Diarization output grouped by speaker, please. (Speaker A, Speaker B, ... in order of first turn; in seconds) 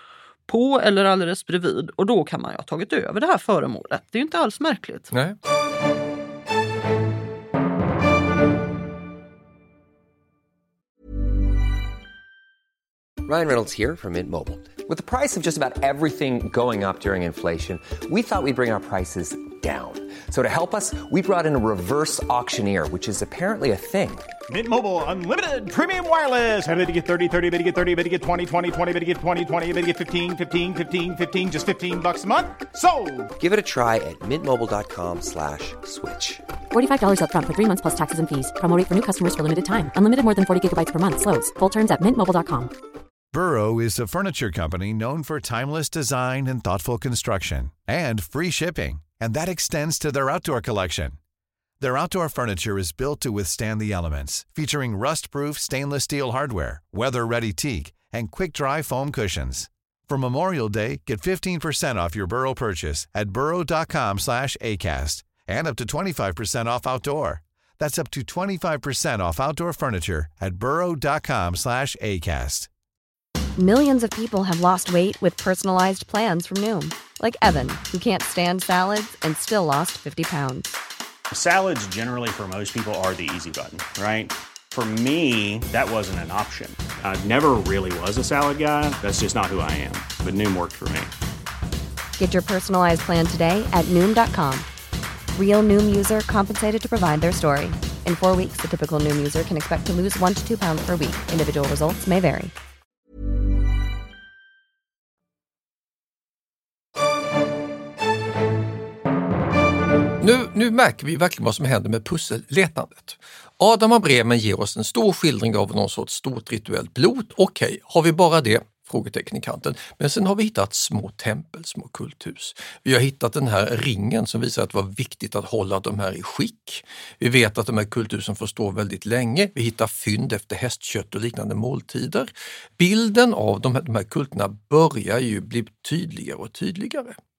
Speaker A: 0.5-5.1
Speaker B: 5.1-5.4, 110.2-137.2
Speaker C: 13.2-24.2, 33.4-36.4
Speaker D: 24.5-33.3
Speaker E: 36.7-42.7
Speaker F: 43.3-51.2, 51.8-72.7
Speaker G: 73.6-80.7, 92.2-94.7, 95.3-102.5
Speaker H: 81.3-91.1